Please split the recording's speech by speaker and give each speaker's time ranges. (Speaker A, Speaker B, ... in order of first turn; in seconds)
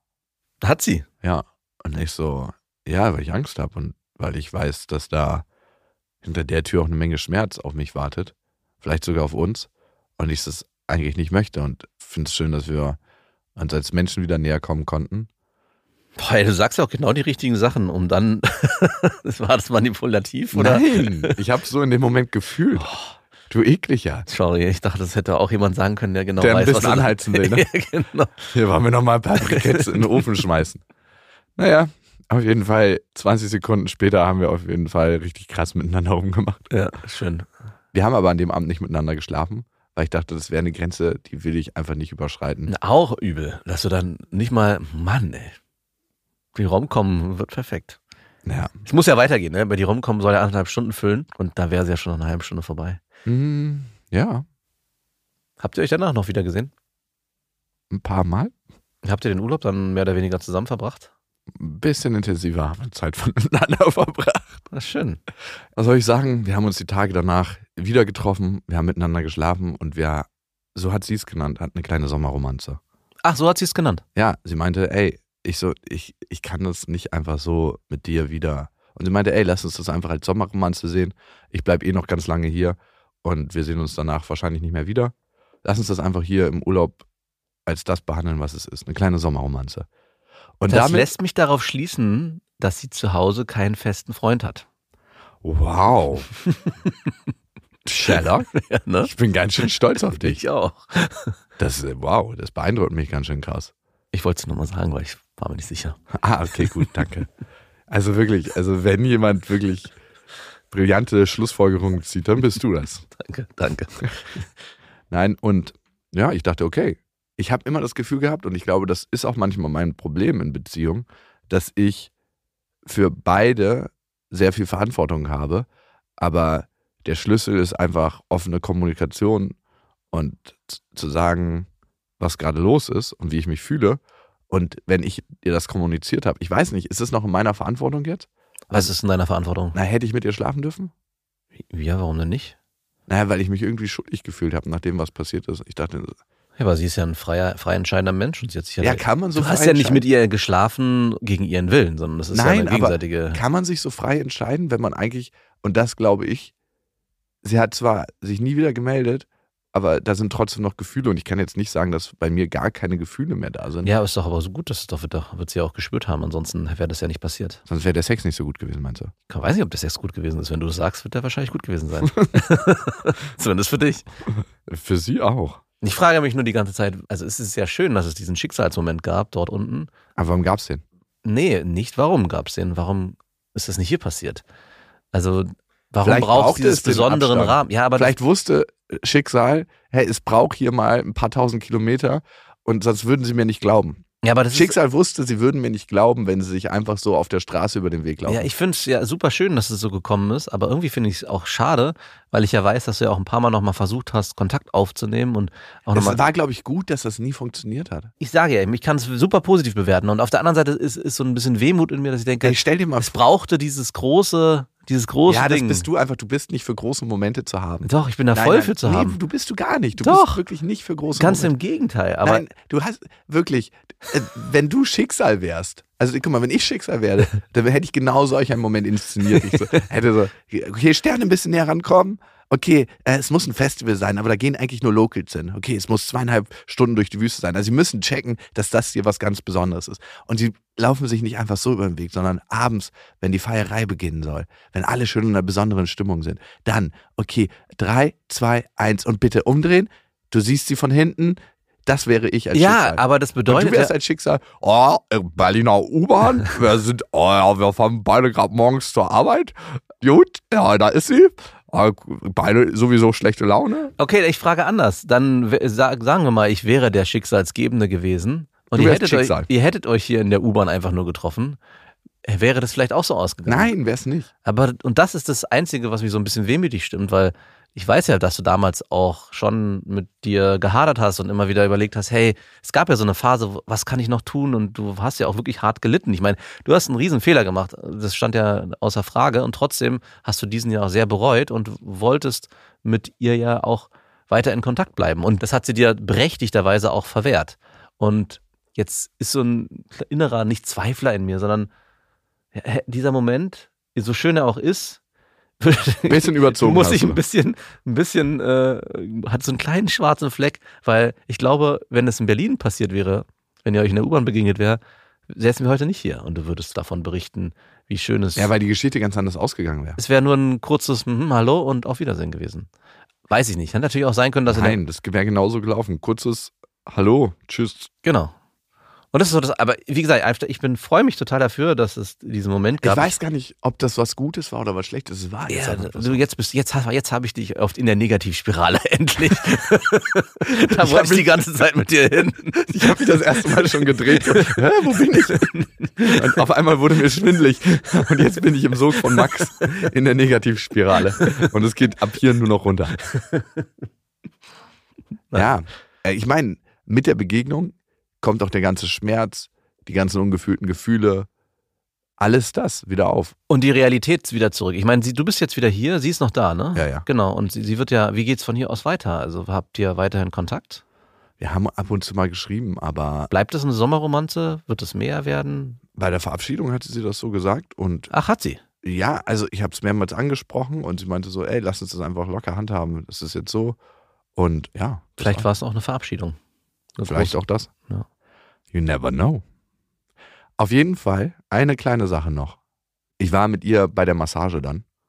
Speaker A: 0.6-1.1, 16.2-21.4, 22.8-23.1, 24.3-28.5, 29.4-30.3, 36.7-37.5, 42.7-45.6, 46.5-48.0, 48.9-53.0, 55.6-56.7, 59.0-61.1, 64.7-65.2, 73.2-74.0, 90.7-94.7, 96.5-96.9, 98.1-99.1, 100.0-101.3, 104.1-106.0, 106.6-106.9, 113.2-114.4, 138.7-139.8, 141.7-142.6, 146.6-153.4, 163.8-167.6, 169.3-174.1, 175.8-179.9, 181.2-184.4, 185.1-188.1, 194.2-194.8, 198.3-206.2, 208.2-215.9, 217.8-219.2, 220.0-220.4, 221.2-222.4, 252.5-253.9, 264.0-271.6, 272.2-273.7, 274.4-301.7, 302.5-305.0, 305.6-318.5, 320.0-322.7, 323.3-324.8, 328.0-328.3, 329.1-333.1, 335.5-344.6, 345.1-346.4, 351.2-351.5, 353.0-353.7, 363.5-370.8, 373.3-375.8, 378.1-378.6, 385.2-386.4, 387.0-388.1
Speaker B: 1.2-5.5, 6.2-13.0, 13.6-15.3, 20.5-22.9, 23.5-24.3, 26.4-27.7, 28.5-30.8, 31.6-36.7, 37.9-42.7, 48.5-48.7, 53.3-54.5, 57.9-58.5, 61.5-64.6, 65.8-72.8, 74.2-85.1, 85.6-87.0, 87.7-89.9, 90.6-91.1, 95.4-96.3, 97.9-98.5, 99.0-100.4, 101.6-103.7, 106.2-107.3, 107.9-110.0, 110.7-113.1, 115.1-122.1, 122.8-125.7, 126.2-129.6, 130.1-131.7, 132.2-138.9, 139.7-140.9, 143.1-146.2, 148.8-150.1, 152.3-156.5, 157.4-163.9, 167.7-169.1, 174.7-175.6, 180.2-180.8, 186.0-198.5, 205.9-208.1, 212.4-213.2, 215.3-221.5, 222.2-263.9, 268.8-269.5, 273.5-274.3, 306.1-307.2, 318.4-320.0, 324.5-327.9, 332.8-336.2, 340.5-341.4, 342.6-353.0, 355.3-361.3, 362.2-363.4, 366.8-367.1, 371.4-373.3, 375.9-378.1, 378.8-383.8, 384.4-385.5, 387.1-387.7, 388.7-389.4, 390.6-392.6, 393.2-394.8